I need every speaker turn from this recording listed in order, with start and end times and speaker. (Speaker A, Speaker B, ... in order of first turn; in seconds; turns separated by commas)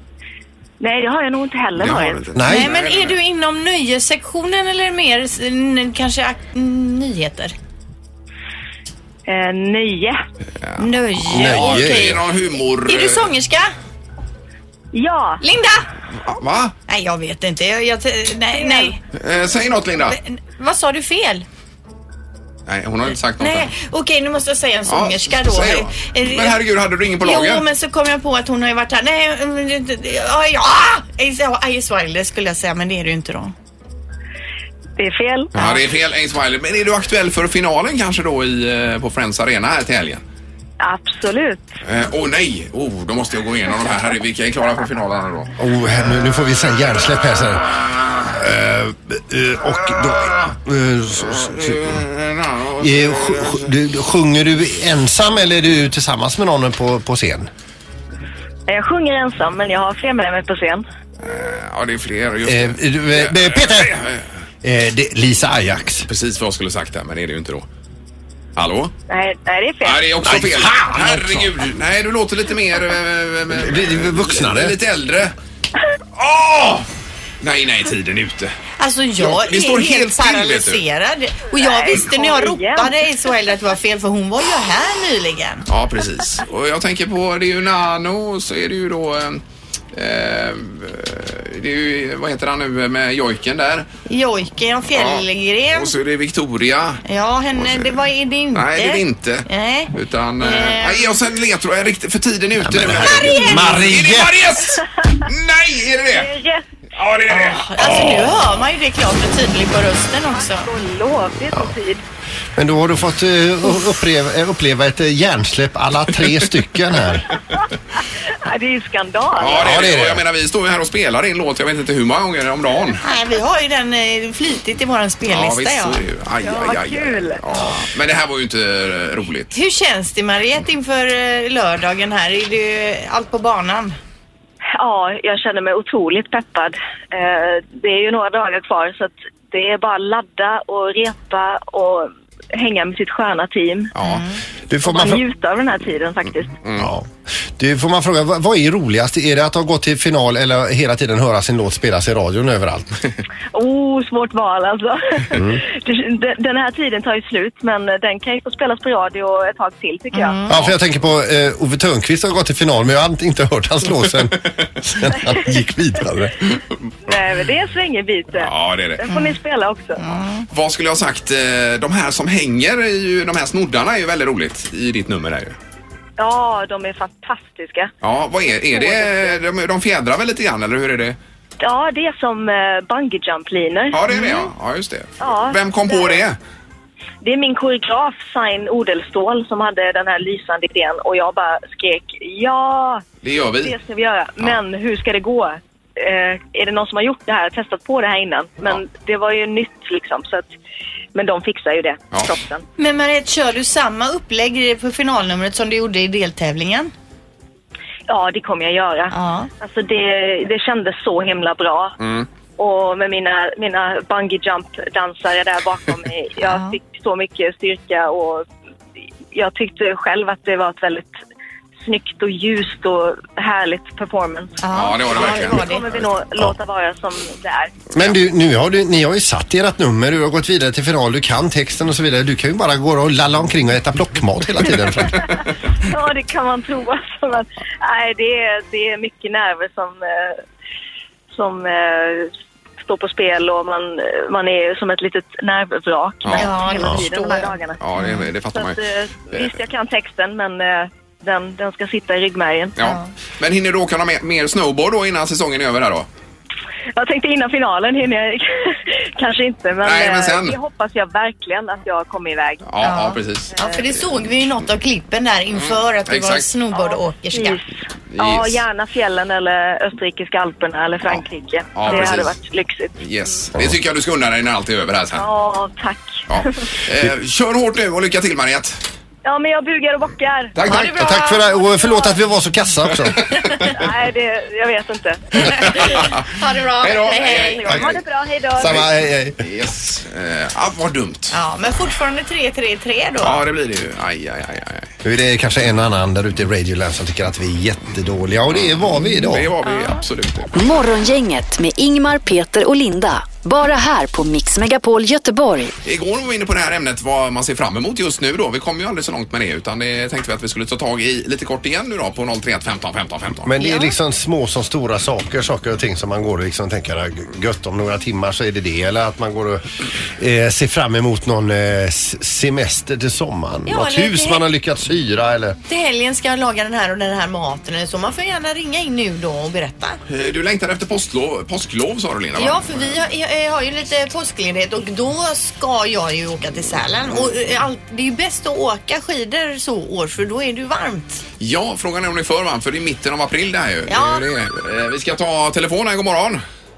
Speaker A: 0.8-2.3, Speaker B: 1.8-3.2, Speaker C: 2.3-2.7, Speaker D: 2.4-7.5, Speaker A: 9.3-10.2, Speaker B: 10.6-13.3, Speaker D: 10.8-12.2, Speaker C: 11.3-12.2, Speaker D: 12.8-13.7, Speaker A: 14.9-15.4, Speaker D: 15.4-15.8, Speaker B: 16.2-16.7, Speaker D: 16.9-19.0, Speaker A: 18.5-18.9, Speaker B: 19.1-20.2, Speaker D: 20.1-21.4, Speaker B: 22.7-23.7, Speaker D: 23.4-26.6, Speaker B: 24.9-27.6, Speaker D: 27.2-33.5, Speaker A: 35.0-35.8, Speaker B: 35.5-40.2, Speaker A: 40.8-41.8, Speaker B: 41.8-45.5, Speaker C: 45.6-52.0, Speaker C: 52.7-57.5, Speaker A: 58.7-60.8, Speaker B: 61.2-64.2, Speaker C: 62.4-64.0, Speaker C: 64.6-66.1, Speaker B: 66.1-67.7, Speaker B: 68.5-68.9, Speaker A: 69.1-70.1, Speaker B: 69.8-75.3, Speaker C: 70.2-71.5, Speaker C: 73.5-74.7, Speaker B: 76.2-76.9, Speaker B: 77.4-78.5, Speaker D: 78.8-85.6, Speaker B: 79.2-80.8, Speaker A: 81.5-83.0, Speaker B: 85.7-89.4, Speaker B: 89.9-93.9, Speaker D: 94.1-95.9, Speaker B: 94.9-97.0, Speaker D: 97.0-101.2, Speaker B: 97.5-98.0, Speaker B: 98.5-106.3, Speaker C: 102.6-104.4, Speaker D: 103.0-103.8, Speaker A: 104.7-105.2, Speaker A: 106.1-106.7, Speaker B: 106.9-108.6, Speaker D: 107.3-110.7, Speaker A: 110.3-112.0, Speaker C: 112.5-117.3, Speaker A: 118.4-119.9, Speaker B: 119.4-123.0, Speaker C: 119.6-120.2, Speaker D: 123.0-126.0, Speaker B: 125.3-129.6, Speaker A: 126.4-127.7, Speaker D: 127.5-127.8, Speaker D: 129.5-134.0, Speaker A: 134.7-143.9, Speaker B: 143.9-144.2, Speaker D: 144.0-144.3, Speaker C: 144.7-145.2, Speaker A: 144.8-146.6, Speaker B: 146.6-146.9, Speaker C: 146.8-153.0, Speaker A: 153.5-160.4, Speaker C: 155.3-155.6, Speaker D: 160.1-160.6, Speaker C: 160.5-166.6, Speaker B: 160.5-160.8, Speaker A: 167.0-170.0, Speaker B: 168.3-169.0, Speaker D: 169.0-169.3, Speaker D: 170.0-170.4, Speaker B: 170.5-175.6, Speaker A: 176.2-177.9, Speaker B: 178.0-181.2, Speaker A: 178.5-179.4, Speaker A: 181.6-184.5, Speaker B: 183.9-186.4, Speaker D: 184.1-184.4, Speaker A: 185.2-186.2, Speaker A: 187.2-193.1, Speaker B: 193.2-193.7, Speaker A: 193.6-200.5, Speaker A: 201.1-202.6, Speaker D: 202.8-206.9, Speaker A: 208.1-211.9, Speaker D: 209.1-209.5, Speaker B: 212.0-212.3, Speaker A: 212.6-218.4, Speaker D: 216.4-216.8, Speaker A: 219.3-221.2, Speaker A: 221.8-227.8, Speaker D: 224.6-225.8, Speaker B: 224.7-226.0, Speaker C: 227.9-235.4, Speaker A: 235.8-240.4, Speaker A: 241.3-247.8, Speaker B: 246.2-246.6, Speaker D: 246.3-248.2, Speaker B: 247.8-248.8, Speaker A: 248.5-252.8, Speaker B: 252.8-256.1, Speaker D: 252.8-253.1, Speaker A: 256.9-262.8, Speaker B: 259.8-260.5, Speaker B: 262.6-264.1, Speaker D: 262.8-267.6, Speaker A: 263.6-263.8, Speaker B: 265.6-266.5, Speaker A: 266.7-273.5, Speaker B: 268.1-268.6, Speaker B: 271.7-272.3, Speaker B: 273.0-275.2, Speaker A: 275.1-276.6, Speaker B: 276.3-278.8, Speaker A: 279.2-280.5, Speaker B: 280.6-281.1, Speaker D: 280.6-281.8, Speaker C: 280.6-283.2, Speaker A: 281.8-282.1, Speaker A: 283.6-286.1, Speaker B: 285.5-286.3, Speaker D: 285.6-287.8, Speaker B: 286.8-287.9, Speaker A: 287.0-288.8, Speaker C: 288.6-289.4, Speaker B: 289.4-291.3, Speaker D: 291.3-293.4, Speaker B: 293.2-294.9, Speaker C: 295.0-299.5, Speaker B: 298.5-300.5, Speaker D: 299.6-300.0, Speaker E: 300.5-305.7, Speaker B: 305.8-313.5, Speaker C: 313.4-319.6, Speaker D: 313.6-313.9, Speaker C: 320.2-325.6, Speaker D: 323.6-324.4, Speaker D: 325.7-330.0, Speaker B: 330.1-332.9, Speaker D: 332.4-341.2, Speaker B: 341.4-346.4, Speaker D: 343.9-344.2